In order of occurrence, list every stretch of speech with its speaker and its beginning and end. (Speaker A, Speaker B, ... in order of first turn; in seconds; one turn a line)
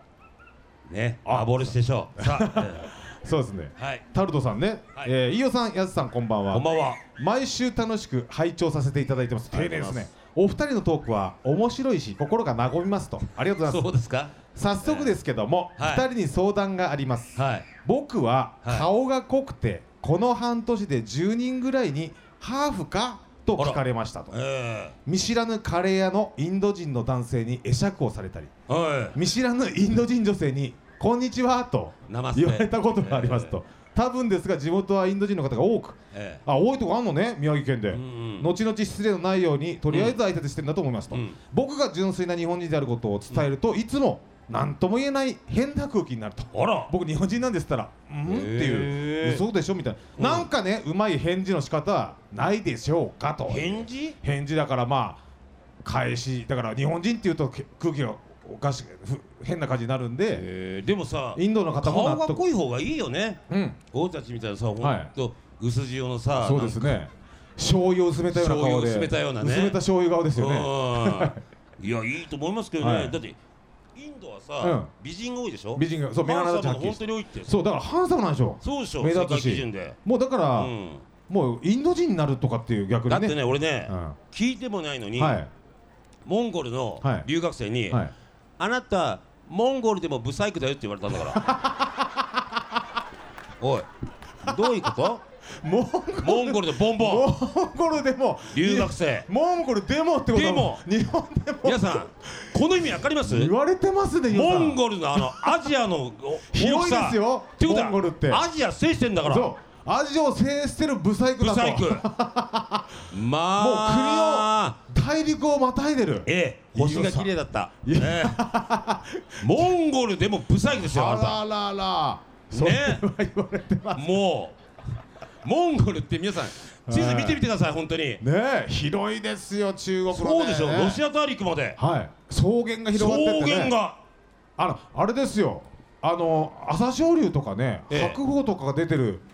Speaker A: 0.9-2.9
Speaker B: 1.2-13.9
Speaker A: 3.8-4.0
Speaker A: 6.5-7.0
Speaker A: 9.5-10.1
Speaker A: 13.6-15.2
Speaker B: 14.5-24.4
Speaker A: 15.8-16.1
Speaker A: 17.4-17.7
Speaker A: 23.6-25.0
Speaker B: 25.1-28.5
Speaker A: 28.7-29.2
Speaker B: 29.1-55.2
Speaker A: 32.1-33.6
Speaker A: 36.1-36.4
Speaker A: 37.9-38.5
Speaker A: 39.9-40.2
Speaker A: 41.1-41.4
Speaker A: 46.5-46.9
Speaker A: 48.2-49.4
Speaker A: 50.2-50.5
Speaker A: 53.5-54.2
Speaker B: 55.8-60.5
Speaker A: 60.3-63.4
Speaker B: 61.4-62.5
Speaker B: 63.5-63.8
Speaker A: 63.9-67.0
Speaker B: 64.8-65.1
Speaker B: 66.3-71.4
Speaker A: 68.3-69.8
Speaker A: 70.3-73.4
Speaker B: 72.8-73.2
Speaker A: 74.0-77.5
Speaker B: 74.6-74.9
Speaker B: 75.8-80.7
Speaker A: 78.6-80.0
Speaker A: 80.5-81.1
Speaker B: 81.3-84.2
Speaker A: 83.1-85.4
Speaker B: 85.2-85.5
Speaker A: 86.2-88.0
Speaker B: 87.0-87.3
Speaker A: 88.6-91.4
Speaker B: 91.2-92.4
Speaker A: 93.6-93.9
Speaker A: 94.4-95.2
Speaker B: 95.6-105.7
Speaker A: 96.2-97.3
Speaker A: 98.5-99.3
Speaker A: 100.3-100.8
Speaker A: 101.6-103.5
Speaker A: 104.3-109.5
Speaker B: 106.5-108.5
Speaker B: 109.2-113.0
Speaker A: 111.4-112.0
Speaker A: 113.1-114.8
Speaker B: 113.6-117.3
Speaker A: 116.3-118.4
Speaker B: 117.8-119.7
Speaker A: 119.4-121.4
Speaker B: 120.7-124.2
Speaker A: 122.5-123.0
Speaker A: 123.9-124.5
Speaker A: 125.4-128.2
Speaker B: 126.9-127.4
Speaker B: 128.2-131.0
Speaker A: 130.1-131.8
Speaker B: 131.8-133.8
Speaker A: 132.9-134.0
Speaker B: 134.6-139.2
Speaker A: 137.9-138.2